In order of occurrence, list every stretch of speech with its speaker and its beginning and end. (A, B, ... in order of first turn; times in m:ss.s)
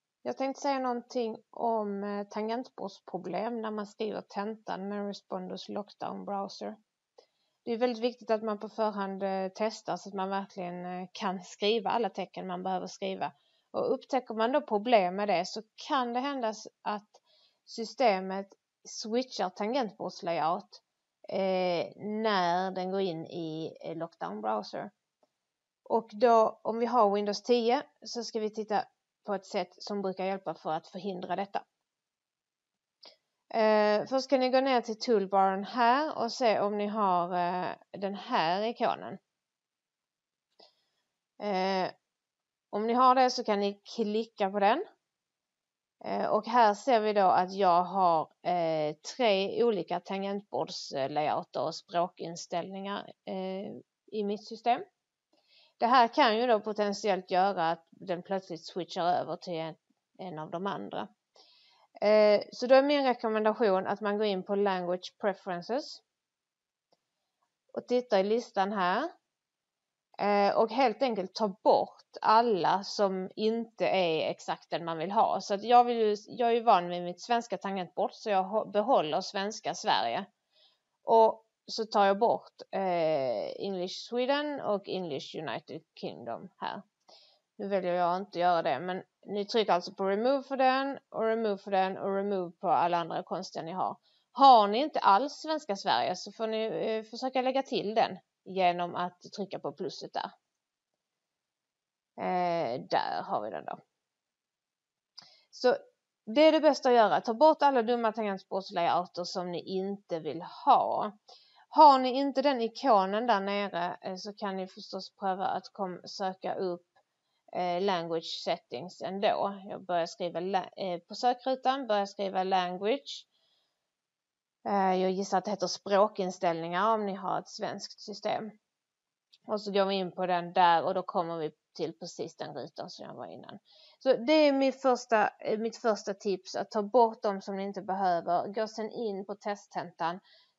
0:00.2-0:06.8 A
0:07.6-0:24.9 A
0:25.9-0:31.7 A
0:33.5-0:39.2 A
0:41.4-0:41.9 A
0:42.7-0:44.8 A
0:46.0-0:54.8 A
0:55.8-1:01.1 A
1:02.0-1:06.0 A
1:07.7-1:09.1 A
1:10.2-1:20.3 A
1:21.0-1:26.9 A
1:27.6-1:40.3 A
1:42.2-1:43.8 A
1:45.5-1:51.2 A
1:51.7-1:57.0 A
1:57.5-2:03.3 A
2:04.6-2:08.5 A
2:09.5-2:20.2 A